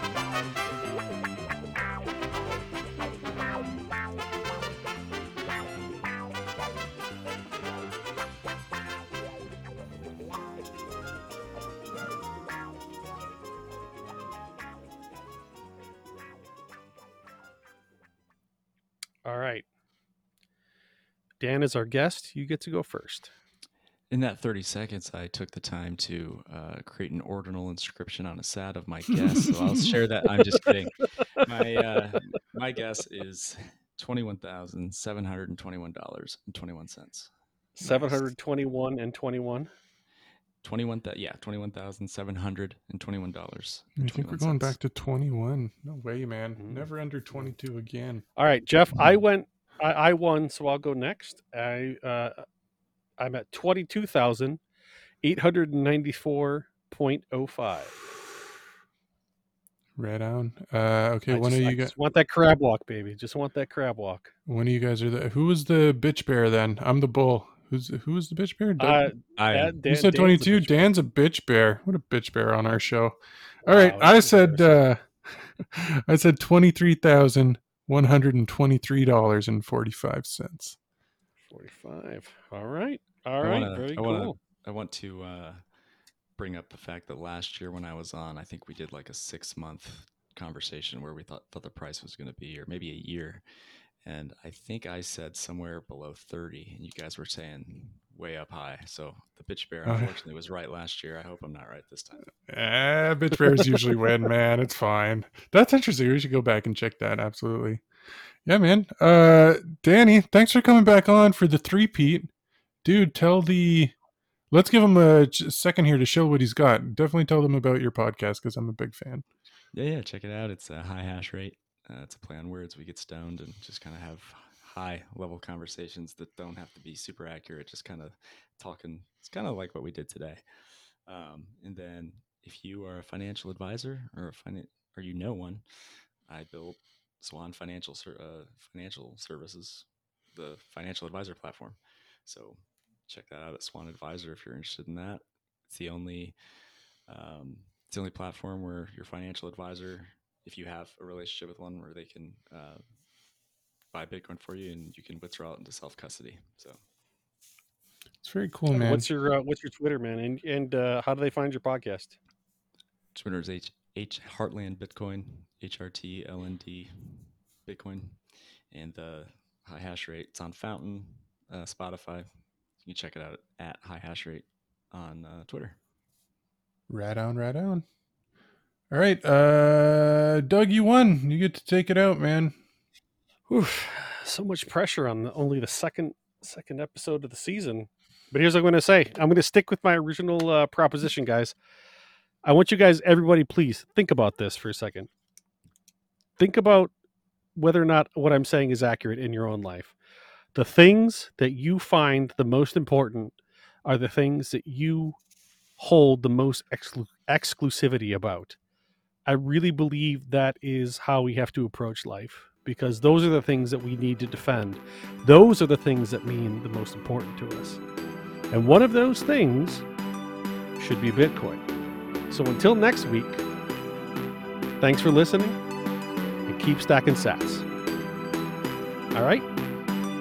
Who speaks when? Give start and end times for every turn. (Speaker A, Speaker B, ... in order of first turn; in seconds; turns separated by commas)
Speaker A: 19.2-19.6, Speaker A: 21.4-23.3, Speaker B: 24.1-37.3, Speaker C: 29.4-29.9, Speaker A: 37.8-39.7, Speaker C: 37.8-38.2, Speaker B: 40.6-44.8, Speaker C: 44.0-48.2, Speaker A: 46.6-46.9, Speaker A: 48.4-52.4, Speaker A: 53.2-54.6, Speaker A: 55.2-58.0, Speaker C: 60.0-61.9, Speaker A: 61.3-64.3, Speaker C: 64.5-69.1, Speaker A: 68.8-70.9, Speaker B: 69.4-69.7, Speaker C: 69.9-80.8, Speaker A: 73.7-74.7, Speaker A: 81.5-84.3, Speaker B: 83.4-85.6, Speaker B: 86.4-93.4, Speaker B: 94.0-102.3, Speaker C: 99.8-100.1, Speaker C: 102.5-107.8, Speaker C: 108.5-112.3, Speaker C: 112.8-114.0, Speaker C: 114.5-119.2, Speaker B: 119.7-130.4, Speaker B: 131.1-135.6, Speaker B: 136.3-146.4, Speaker B: 147.1-152.8, Speaker B: 153.9-156.8, Speaker C: 158.2-159.1, Speaker A: 158.7-162.2, Speaker B: 163.2-168.2, Speaker B: 168.7-172.3, Speaker B: 172.8-175.8, Speaker C: 176.9-177.8, Speaker C: 178.9-182.6, Speaker A: 183.5-191.6, Speaker A: 192.4-195.1, Speaker A: 196.4-196.9, Speaker A: 197.6-200.0, Speaker A: 200.6-205.2, Speaker A: 205.8-208.6, Speaker A: 209.3-217.8, Speaker A: 218.5-219.9, Speaker A: 220.8-221.6, Speaker A: 222.3-223.4, Speaker A: 224.8-225.6, Speaker A: 226.5-227.7, Speaker A: 229.1-229.5